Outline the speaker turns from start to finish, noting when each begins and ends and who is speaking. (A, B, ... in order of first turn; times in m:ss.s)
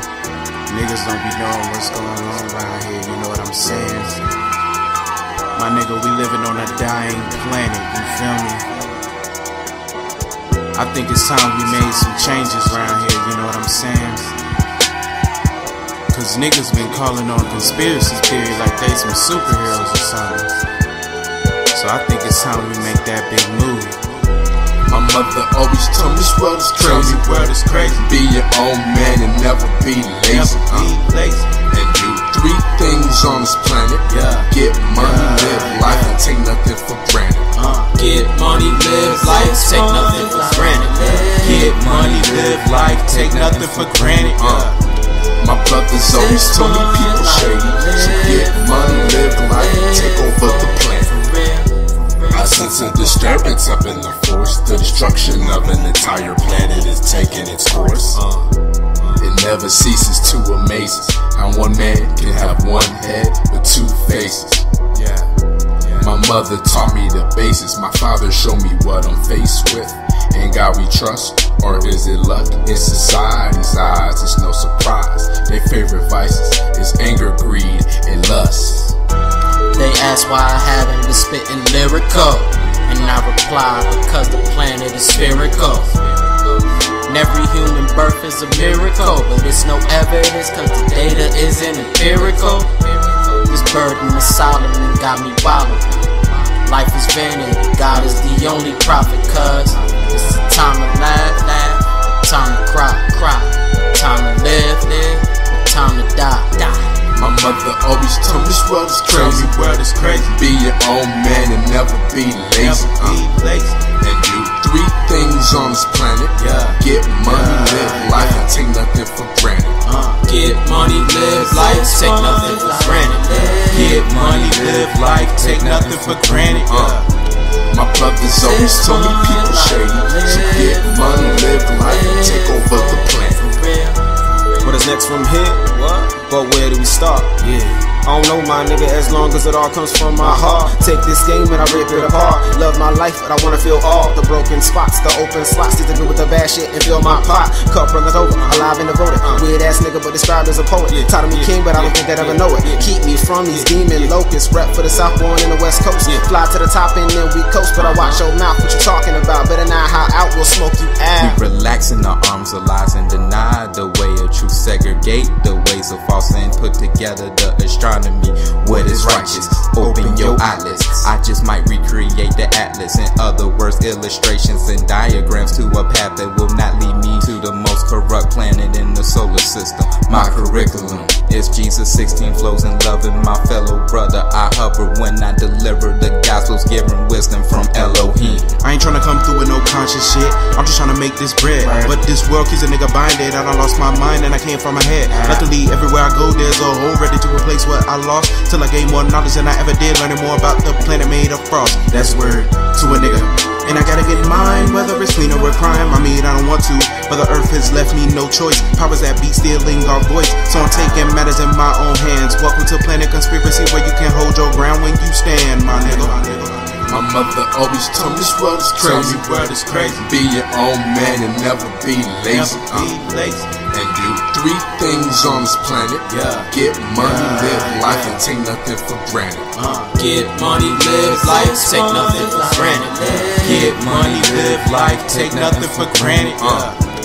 0:00.7-0:04.2 A
0:05.5-0:08.7 A
0:10.7-0:14.3 A
0:16.1-0:20.5 A
0:21.7-0:24.0 A
0:24.9-0:30.9 B
0:26.7-0:28.1 A
0:30.2-0:31.6 A
0:31.7-0:37.5 B
0:34.0-0:36.2 A
0:37.5-0:37.9 A
0:37.9-0:41.8 C
0:39.0-0:44.8 A
0:41.7-0:44.3 D
0:44.3-0:44.8 B
0:45.4-0:51.2 B
0:46.0-0:53.4 C
0:52.3-0:58.2 B
0:59.2-1:04.7 B
1:06.0-1:19.0 B
1:19.7-1:26.4 C
1:27.0-1:47.0 C
1:47.2-1:53.2 B
1:49.0-1:50.4 A
1:52.6-1:53.9 A
1:54.0-1:59.8 B
1:56.3-1:58.5 A
1:59.8-2:00.2 A
2:00.2-2:04.1 C
2:01.3-2:07.1 A
2:04.2-2:06.5 D
2:06.6-2:07.1 B
2:07.7-2:13.4 B
2:08.2-2:14.8 C
2:14.6-2:17.4 E
2:17.4-2:17.8 A
2:18.0-2:41.4 E
2:20.2-2:20.6 A
2:26.9-2:27.3 A
2:28.4-2:28.6 A
2:30.9-2:32.9 A
2:33.5-2:34.2 A
2:37.8-2:38.2 A
2:41.2-3:08.5 D
2:49.1-2:49.4 B
3:08.0-3:37.2 A
3:36.9-3:42.9 B
3:38.8-3:40.1 A
3:42.2-3:43.6 A
3:43.7-3:49.5 B
3:46.0-3:48.2 A
3:49.5-3:50.0 A
3:49.9-3:53.8 C
3:50.9-3:56.8 A
3:53.5-3:56.3 D
3:56.4-3:56.8 B